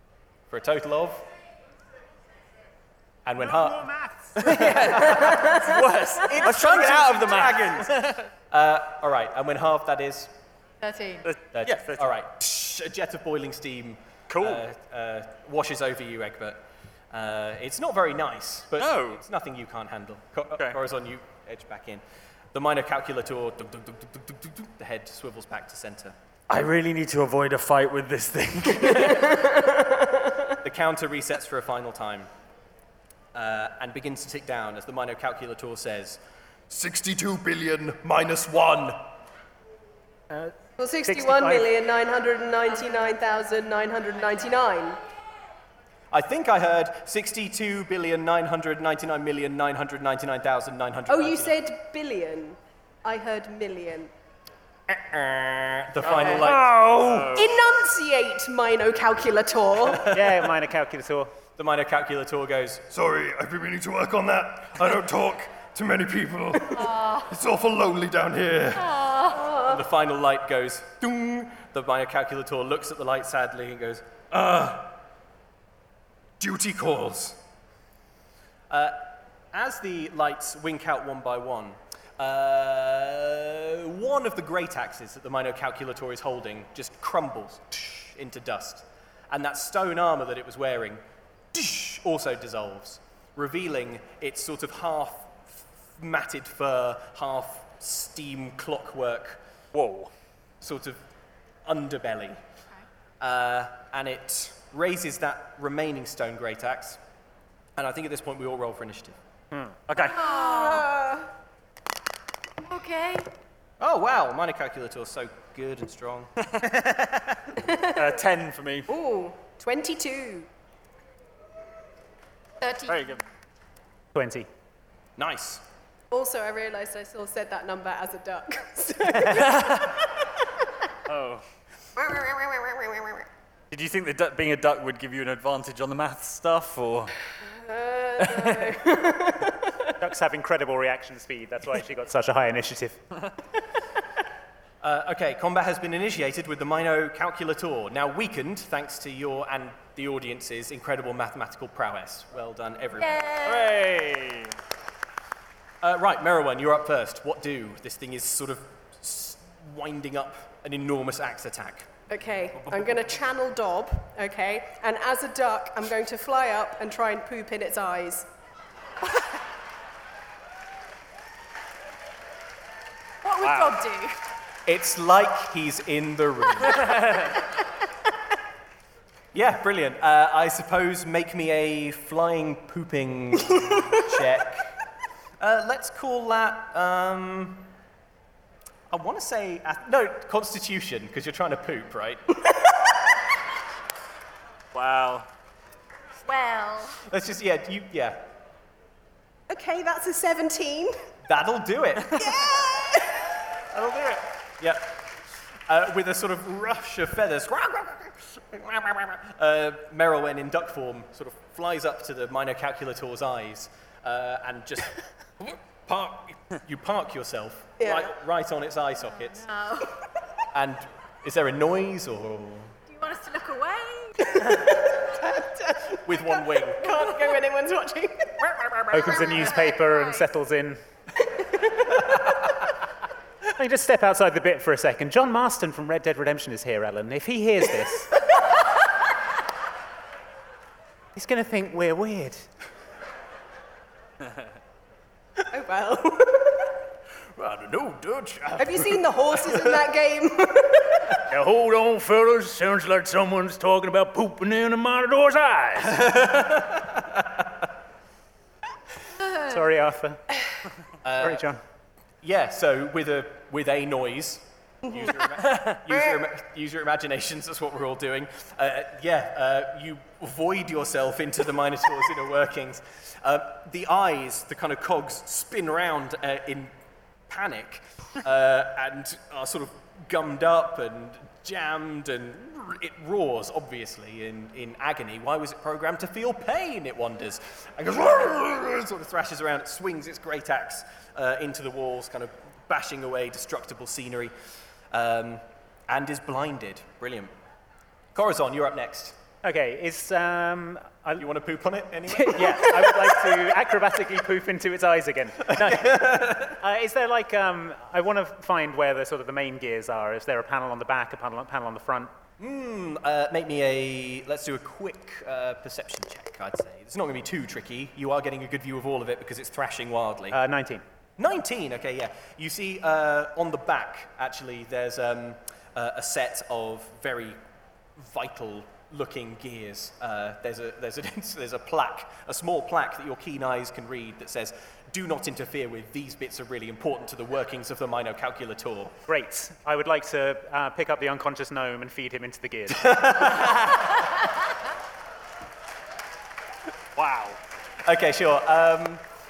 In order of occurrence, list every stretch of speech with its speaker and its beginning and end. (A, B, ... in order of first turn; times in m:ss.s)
0:00.5-0:01.2 A
0:03.2-0:05.5 A
0:03.4-0:04.8 B
0:04.4-0:08.3 C
0:06.2-0:10.3 A
0:10.8-0:11.3 D
0:11.2-0:12.1 C
0:11.5-0:22.0 A
0:14.3-0:14.7 C
0:18.8-0:19.2 C
0:22.5-0:26.1 A
0:26.5-0:29.4 C
0:29.5-0:30.0 E
0:30.6-0:32.3 A
0:33.3-0:36.2 A
0:36.7-0:39.0 F
0:40.8-0:45.0 E
0:41.1-0:41.7 B
0:46.1-0:51.6 A
0:51.1-0:54.1 E
0:54.9-0:57.2 A
0:56.0-0:57.5 C
0:56.1-0:56.5 E
0:57.3-1:00.1 E
0:59.9-1:00.6 A
1:00.1-1:01.4 B
1:01.6-1:02.9 A
1:02.9-1:09.0 F
1:06.8-1:07.3 D
1:08.8-1:09.4 D
1:09.3-1:09.8 E
1:09.6-1:15.0 A
1:16.4-1:17.4 F
1:18.7-1:31.0 A
1:31.5-1:39.4 A
1:39.7-1:40.1 C
1:40.6-1:41.0 A
1:41.7-1:42.4 A
1:43.2-1:47.0 A
1:47.8-1:49.2 A
1:49.9-1:50.3 C
1:50.0-1:50.9 D
1:50.1-1:51.3 E
1:52.6-1:53.3 D
1:53.8-1:56.3 A
1:56.4-1:57.3 C
1:57.6-1:58.0 E
1:57.9-1:58.9 C
1:58.9-2:00.5 E
2:02.6-2:03.2 D
2:02.9-2:03.2 C
2:04.1-2:04.5 B
2:05.2-2:05.6 A
2:06.1-2:10.1 E
2:09.4-2:09.8 C
2:11.1-2:11.4 C
2:12.0-2:13.3 E
2:13.7-2:17.1 C
2:17.4-2:19.8 E
2:18.2-2:18.7 C
2:20.0-2:23.0 B
2:24.8-2:33.2 A
2:33.0-2:33.8 D
2:33.4-2:34.5 C
2:35.8-2:41.9 A
2:42.1-2:48.3 E
2:53.2-2:54.2 D
2:53.4-2:53.8 C
2:54.7-2:57.2 A
2:56.8-2:57.3 C
2:59.3-3:04.8 A
3:05.4-3:07.7 A
3:08.9-3:12.4 A
3:14.7-3:15.3 C
3:16.2-3:17.0 D
3:17.1-3:18.3 A
3:19.5-3:21.0 E
3:21.3-3:22.3 A
3:22.2-3:23.2 E
3:23.7-3:25.1 A
3:25.7-3:39.4 A
3:37.8-3:38.1 E
3:39.0-3:40.0 D
3:40.5-3:42.8 A
3:42.9-3:44.4 D
3:44.2-3:49.4 E
3:46.0-3:47.0 A
3:48.9-3:50.8 B
3:49.2-3:50.2 D
3:51.2-3:52.1 E
3:53.6-3:58.2 B
4:01.2-4:02.5 B
4:05.5-4:06.8 E
4:07.4-4:09.7 A
4:08.6-4:11.2 E
4:11.3-4:16.1 B
4:15.8-4:17.6 A
4:19.2-4:19.6 D
4:19.4-4:20.2 B
4:21.0-4:21.5 A
4:21.2-4:21.6 B
4:22.2-4:36.7 A
4:37.3-4:54.3 A
4:54.9-4:57.3 A
4:58.2-4:59.2 A
4:59.4-5:01.3 B
5:01.2-5:03.2 A
5:02.1-5:12.1 B
5:05.5-5:06.6 A
5:12.4-5:20.4 A
5:20.3-5:20.8 B
5:21.2-5:27.4 A
5:28.0-5:39.0 A
5:39.1-5:43.0 B
5:42.7-5:44.0 A
5:47.0-5:47.4 C
5:47.8-5:49.0 A